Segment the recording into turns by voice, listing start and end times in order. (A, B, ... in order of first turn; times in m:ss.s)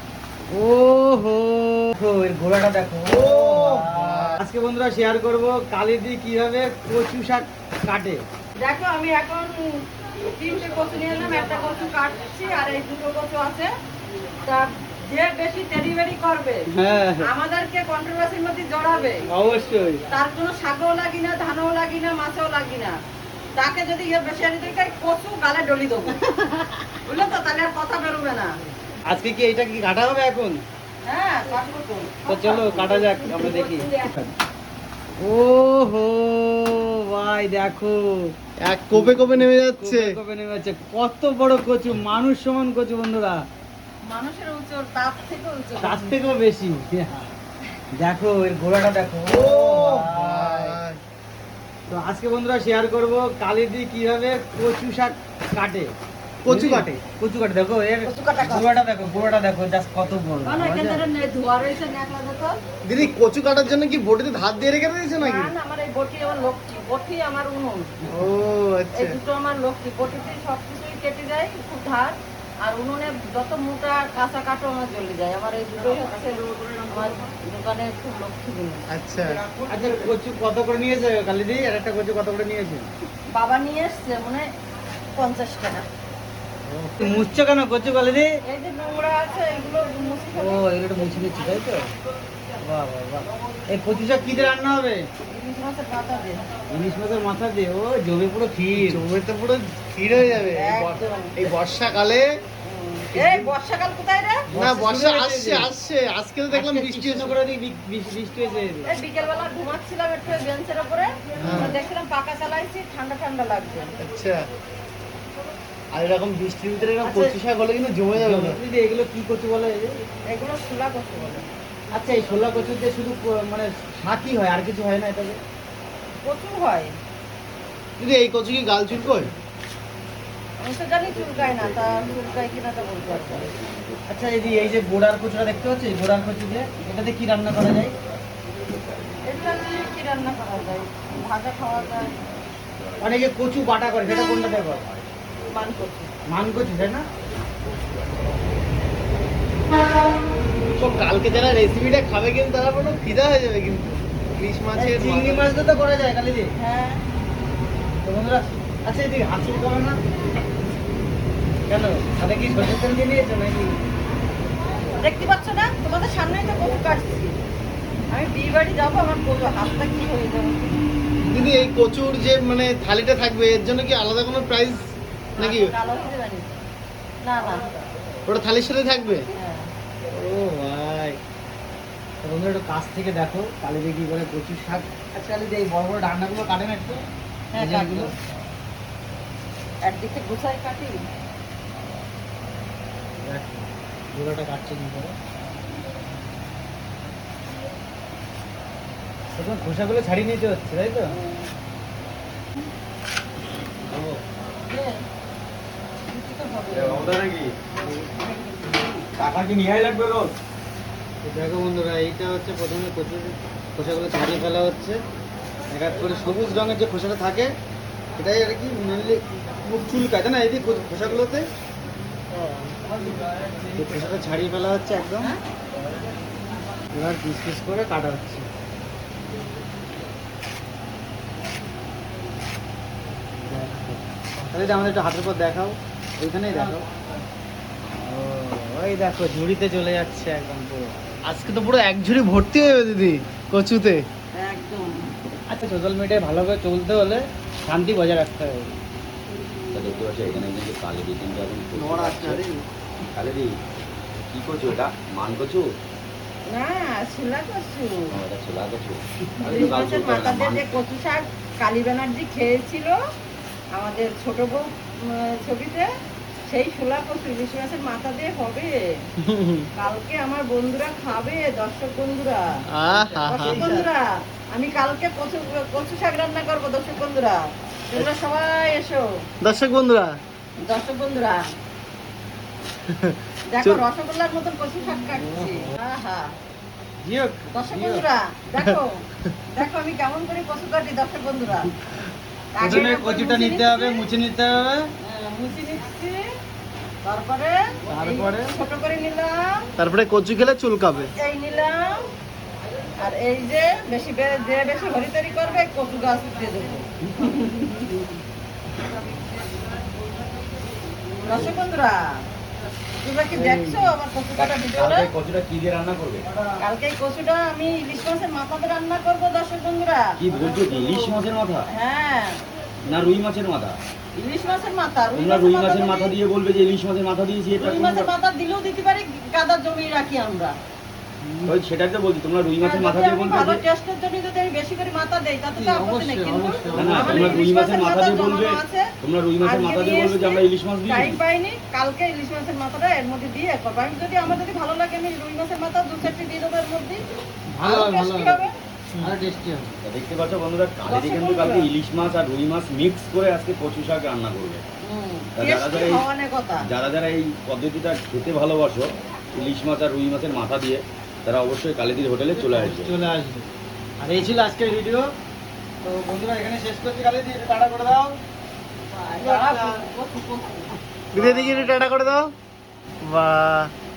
0:00.5-0:08.2 A
0:03.1-0:04.4 B
0:08.6-0:13.7 C
0:14.4-0:16.6 C
0:16.7-0:17.3 A
0:17.2-0:19.2 C
0:19.3-0:20.0 A
0:20.1-0:23.0 C
0:23.6-0:28.5 C
0:29.1-0:30.6 A
0:31.0-0:34.1 C
0:32.2-0:34.3 A
0:35.2-0:38.3 A
0:38.6-0:40.2 B
0:38.9-0:43.4 A
0:44.0-0:46.2 C
0:45.8-0:47.3 A
0:47.9-0:50.8 A
0:49.3-0:51.0 B
0:51.9-0:55.9 A
0:56.4-0:56.9 B
0:56.4-1:01.1 A
0:58.0-0:58.7 C
1:00.4-1:02.6 C
1:02.8-1:05.5 B
1:05.2-1:07.9 C
1:08.1-1:09.2 B
1:08.9-1:18.8 C
1:16.4-1:16.9 D
1:18.9-1:19.4 B
1:19.3-1:20.1 D
1:19.7-1:22.9 A
1:23.3-1:24.5 C
1:25.1-1:25.9 C
1:26.6-1:28.3 A
1:28.4-1:30.6 C
1:30.4-1:31.9 A
1:32.6-1:35.0 A
1:35.3-1:36.5 C
1:36.7-1:39.0 A
1:38.7-1:42.3 B
1:40.5-1:41.4 C
1:42.6-1:44.4 C
1:43.1-1:43.4 B
1:44.5-1:45.7 A
1:44.5-1:47.4 B
1:46.5-1:48.9 A
1:48.8-1:53.9 C
1:51.4-1:51.8 A
1:51.4-1:51.8 B
1:53.9-1:54.4 B
1:55.9-1:58.6 B
1:58.1-1:59.9 A
2:00.3-2:01.5 C
2:01.9-2:05.4 A
2:06.2-2:06.9 C
2:08.0-2:09.3 B
2:10.6-2:13.5 C
2:14.1-2:17.9 A
2:19.2-2:22.1 C
2:23.0-2:24.8 A
2:24.1-2:24.6 C
2:25.5-2:26.1 C
2:26.3-2:27.0 A
2:30.7-2:35.4 B
2:34.7-2:36.5 A
2:36.6-2:37.0 C
2:38.0-2:40.0 A
2:41.7-2:43.7 A
2:45.0-2:47.3 C
2:48.1-2:50.8 C
2:51.2-2:54.8 B
2:55.4-2:55.7 B
2:55.4-2:56.5 C
2:57.2-2:57.6 C
2:58.2-2:59.3 B
2:59.3-2:59.7 C
3:00.2-3:01.0 A
3:00.7-3:01.1 B
3:02.2-3:07.0 A
3:07.5-3:08.1 C
3:07.6-3:08.1 A
3:09.8-3:11.0 C
3:13.2-3:15.1 A
3:19.3-3:21.1 A
3:21.1-3:21.5 C
3:24.7-3:25.0 C
3:26.1-3:27.2 C
3:26.7-3:27.5 D
3:28.1-3:29.0 C
3:29.1-3:30.3 D
3:31.2-3:35.0 A
3:35.7-3:37.5 A
3:38.2-3:41.5 A
3:42.4-3:42.7 B
3:43.7-3:45.3 A
3:46.9-3:48.4 A
3:53.4-3:56.8 A
3:58.0-4:01.0 A
4:01.2-4:04.0 B
4:04.3-4:05.1 C
4:05.5-4:08.7 A
4:09.7-4:12.4 D
4:11.8-4:12.6 A
4:13.1-4:13.5 D
4:14.3-4:15.6 D
4:16.5-4:18.1 C
4:18.1-4:20.8 D
4:19.4-4:22.9 C
4:23.7-4:25.8 C
4:26.5-4:28.7 C
4:29.2-4:29.7 B
4:29.8-4:32.4 C
4:32.7-4:33.7 B
4:33.1-4:33.8 A
4:33.2-4:39.0 C
4:39.4-4:40.2 B
4:40.6-4:41.4 C
4:42.9-4:43.8 B
4:43.5-4:46.3 C
4:45.1-4:45.7 A
4:47.0-4:48.0 A
4:47.5-4:51.7 C
4:52.5-4:54.0 C
4:52.6-4:54.9 A
4:55.0-4:56.2 C
4:57.0-4:59.6 C
4:57.9-4:58.5 A
4:59.8-5:01.1 B
5:01.2-5:01.9 C
5:03.0-5:08.0 C
5:11.2-5:12.0 C
5:13.0-5:15.1 C
5:13.3-5:13.9 A
5:14.4-5:16.2 D
5:16.3-5:16.6 A
5:16.6-5:20.1 C
5:20.2-5:21.7 D
5:21.7-5:22.4 C
5:22.8-5:23.8 D
5:24.2-5:26.1 C
5:25.1-5:28.1 D
5:27.6-5:30.5 C
5:31.2-5:31.5 A
5:31.5-5:33.6 D
5:32.6-5:38.9 C
5:35.5-5:37.4 A
5:36.7-5:41.2 D
5:39.4-5:47.0 C
5:47.5-5:48.5 A
5:47.6-5:48.5 C
5:49.0-5:49.7 A
5:49.8-5:54.6 D
5:50.8-5:51.7 C
5:54.9-5:56.6 C
5:55.4-5:56.0 D
5:56.6-6:02.9 D
6:02.3-6:03.5 A
6:04.0-6:05.1 A
6:05.8-6:08.2 A
6:08.9-6:11.7 C
6:09.2-6:09.8 A
6:11.1-6:12.3 B
6:13.0-6:13.7 B